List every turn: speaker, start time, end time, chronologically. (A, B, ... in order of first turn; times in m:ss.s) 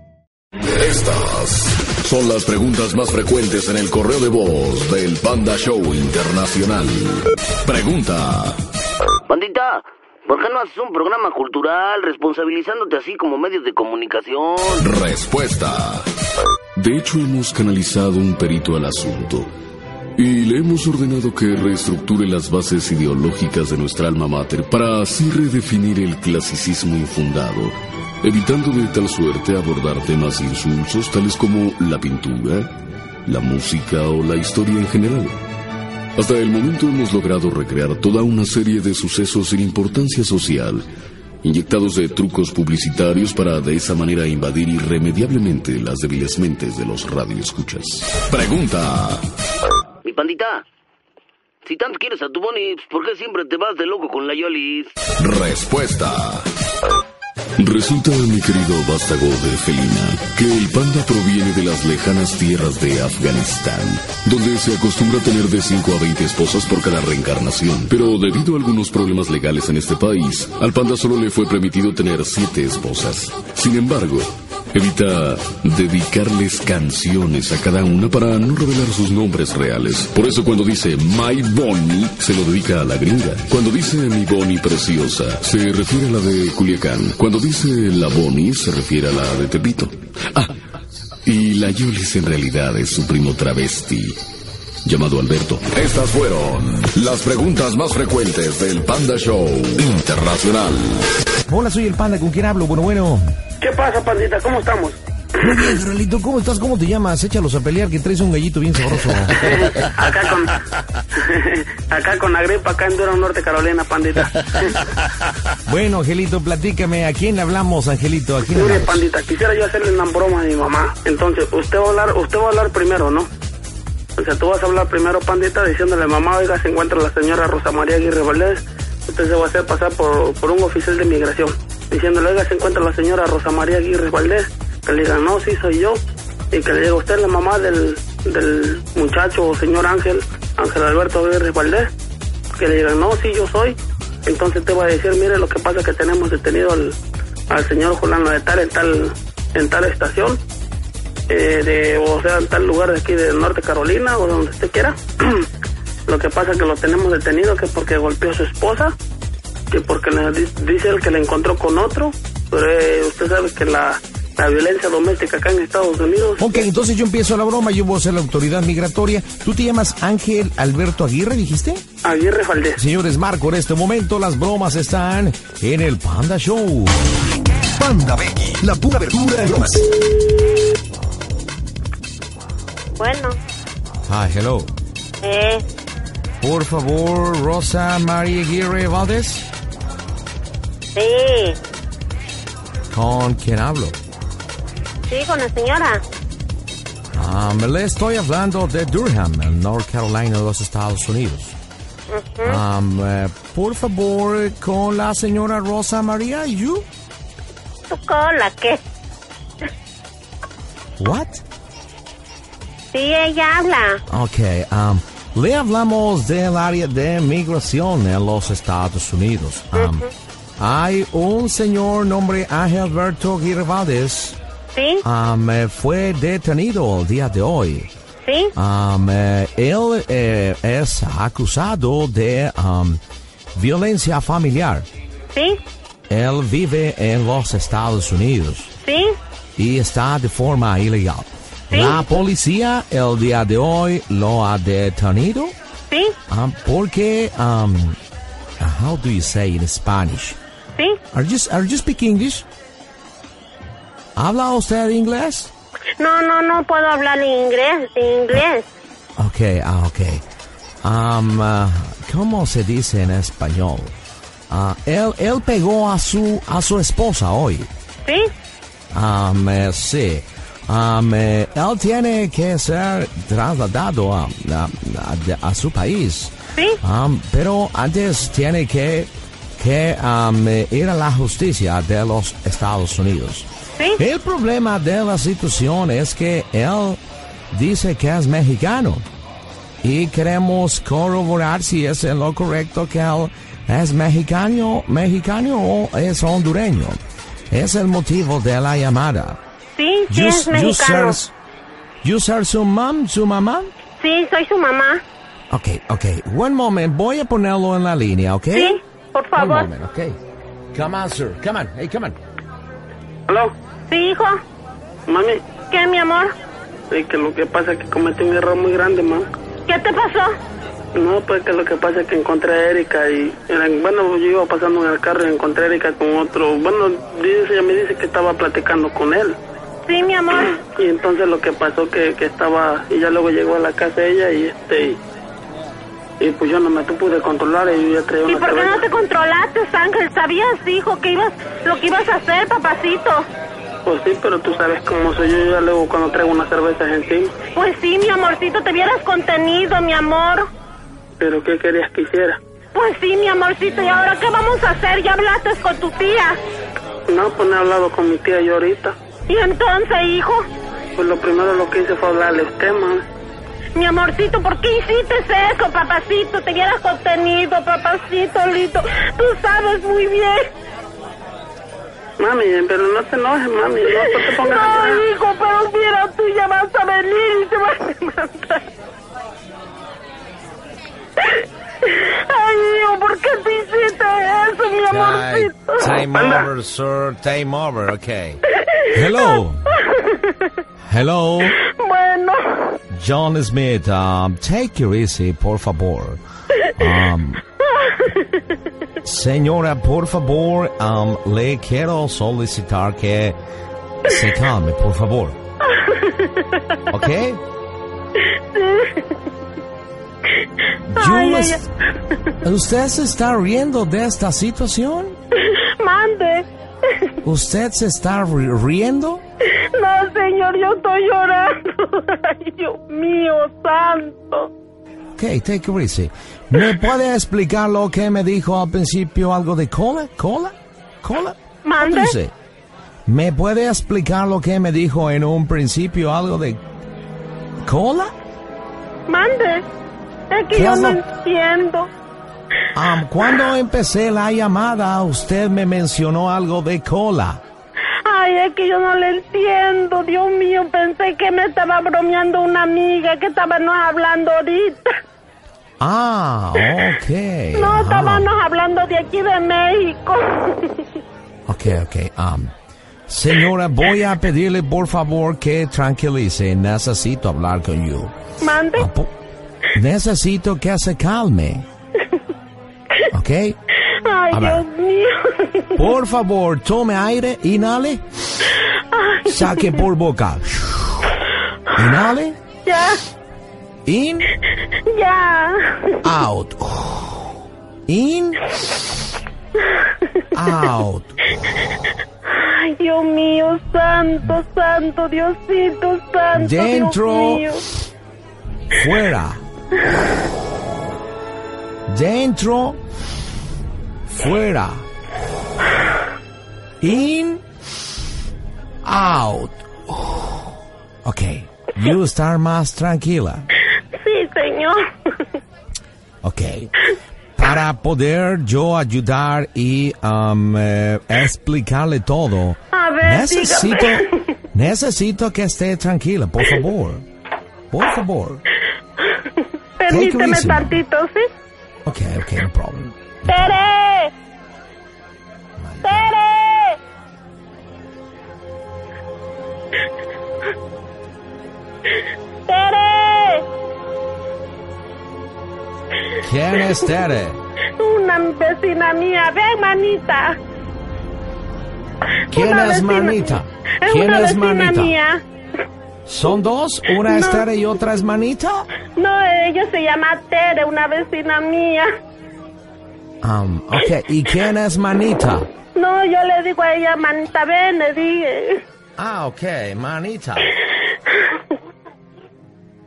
0:00.8-0:08.6 A
0:09.3-0:15.0 B
0:15.0-0:16.0 A
0:16.8-0:19.5 A
0:20.2-0:32.7 A
0:33.3-0:35.4 A
0:36.2-0:40.8 A
0:41.4-0:49.2 A
0:50.0-0:50.6 B
0:51.6-0:54.9 B
0:55.2-0:56.4 A
0:57.6-1:30.5 A
1:31.3-1:34.2 A
1:34.8-1:41.1 A
1:41.5-1:43.2 C
1:43.6-1:45.0 D
1:45.4-1:49.7 C
1:49.4-1:50.6 D
1:51.2-1:54.9 D
1:55.7-1:59.0 C
1:58.5-2:03.3 D
2:04.2-2:16.0 D
2:16.5-2:21.9 D
2:22.6-2:27.0 D
2:27.5-2:30.4 D
2:31.3-2:35.5 D
2:36.1-2:38.9 D
2:39.7-2:46.7 D
2:46.4-2:51.8 C
2:52.0-2:52.8 D
2:52.8-2:57.1 C
2:57.8-2:59.9 E
3:03.0-3:03.4 F
3:04.1-3:04.7 C
3:05.2-3:05.6 F
3:06.4-3:09.5 C
3:11.0-3:11.6 F
3:12.9-3:14.0 C
3:15.1-3:16.0 F
3:17.1-3:21.6 C
3:22.1-3:22.6 F
3:22.4-3:26.9 C
3:27.9-3:28.8 F
3:31.0-3:31.4 C
3:32.9-3:34.0 F
3:34.1-3:40.1 C
3:39.8-3:40.1 F
3:40.6-3:44.4 C
3:44.8-3:45.0 F
3:45.0-3:47.9 C
3:48.3-3:48.5 F
3:48.6-3:53.0 C
3:53.6-3:54.9 C
3:55.3-3:55.6 F
3:56.1-3:58.7 C
3:58.8-3:59.2 F
3:59.6-4:05.6 C
4:01.7-4:02.0 F
4:05.9-4:06.2 F
4:06.3-4:08.0 C
4:08.6-4:10.4 C
4:11.1-4:12.5 C
4:14.2-4:15.5 C
4:16.0-4:18.7 F
4:19.2-4:20.2 C
4:20.8-4:23.9 C
4:24.5-4:27.7 C
4:28.1-4:28.3 F
4:28.9-4:47.0 C
4:47.5-4:49.0 C
4:49.8-4:57.0 C
4:57.5-4:59.4 C
4:59.8-5:01.2 F
5:00.1-5:01.3 C
5:02.0-5:03.7 C
5:04.0-5:05.0 F
5:05.5-5:08.8 C
5:08.5-5:09.7 F
5:09.4-5:10.2 C
5:10.7-5:12.2 C
5:13.3-5:13.5 D
5:13.9-5:14.4 F
5:15.1-5:15.4 D
5:15.7-5:16.3 F
5:16.9-5:19.3 D
5:19.7-5:20.3 F
5:20.9-5:29.4 D
5:29.9-5:30.6 F
5:30.6-5:35.0 D
5:36.2-5:38.8 D
5:38.3-5:43.3 F
5:43.9-5:47.3 D
5:47.5-5:50.5 F
5:51.2-5:52.4 D
5:52.7-5:56.4 F
5:57.1-5:59.0 D
5:59.3-6:00.5 F
6:01.0-6:03.0 D
6:03.8-6:10.5 F
6:12.2-6:15.0 D
6:13.9-6:18.7 F
6:21.8-6:25.9 F
6:24.9-6:28.4 C
6:26.2-6:26.5 D
6:28.9-6:29.7 C
6:30.0-6:30.3 F
6:30.9-6:31.6 C
6:31.6-6:32.8 F
6:32.9-6:36.2 C
6:36.8-6:37.4 C
6:37.8-6:38.3 F
6:39.0-6:43.4 C
6:44.0-6:45.4 C
6:45.7-6:46.5 F
6:46.9-6:47.4 C
6:48.5-6:49.1 F
6:50.9-6:51.7 C
6:51.0-6:51.6 F
6:52.4-6:55.2 C
6:55.4-6:56.5 F
6:57.2-6:59.2 C
6:59.6-7:04.5 F
7:05.2-7:12.3 C
7:11.6-7:12.2 F
7:13.1-7:16.6 C
7:17.6-7:18.1 C
7:19.1-7:19.6 F
7:20.3-7:21.9 F
7:20.5-7:21.0 C
7:22.7-7:27.4 C
7:28.0-7:34.9 F
7:35.8-7:38.3 C
7:37.6-7:40.9 F
7:41.5-7:42.5 C
7:43.1-7:48.1 C
7:48.4-7:48.9 F
7:48.7-7:49.1 C
7:49.7-7:51.6 C
7:53.1-7:53.6 C
7:54.0-7:55.8 F
7:54.3-7:54.6 C
7:55.8-7:58.0 C
7:58.9-7:59.8 F
7:59.2-8:01.1 C
8:01.7-8:02.4 C
8:02.7-8:03.0 F
8:03.9-8:04.3 C
8:04.9-8:06.0 F
8:06.0-8:08.6 C
8:10.3-8:11.2 C
8:12.3-8:17.6 F
8:16.4-8:17.5 C
8:18.7-8:19.4 C
8:21.9-8:22.8 C
8:24.1-8:24.9 C
8:26.8-8:27.4 C
8:28.8-8:30.5 C
8:31.0-8:33.5 C
8:33.9-8:34.8 F
8:36.2-8:36.7 C
8:37.4-8:47.0 C
8:42.7-8:44.1 F
8:47.7-8:48.4 C
8:49.8-8:51.3 F
8:49.9-8:50.8 C
8:51.9-8:53.7 C
8:53.3-8:54.1 F
8:55.6-8:56.1 C
8:55.8-8:56.8 F
9:02.5-9:03.5 F
9:06.2-9:07.4 C
9:07.8-9:10.4 F
9:12.3-9:15.0 C
9:12.3-9:15.2 F
9:16.1-9:18.7 C
9:17.1-9:17.4 F
9:19.0-9:21.9 F
9:23.2-9:25.5 C
9:25.8-9:28.6 F
9:29.0-9:30.6 C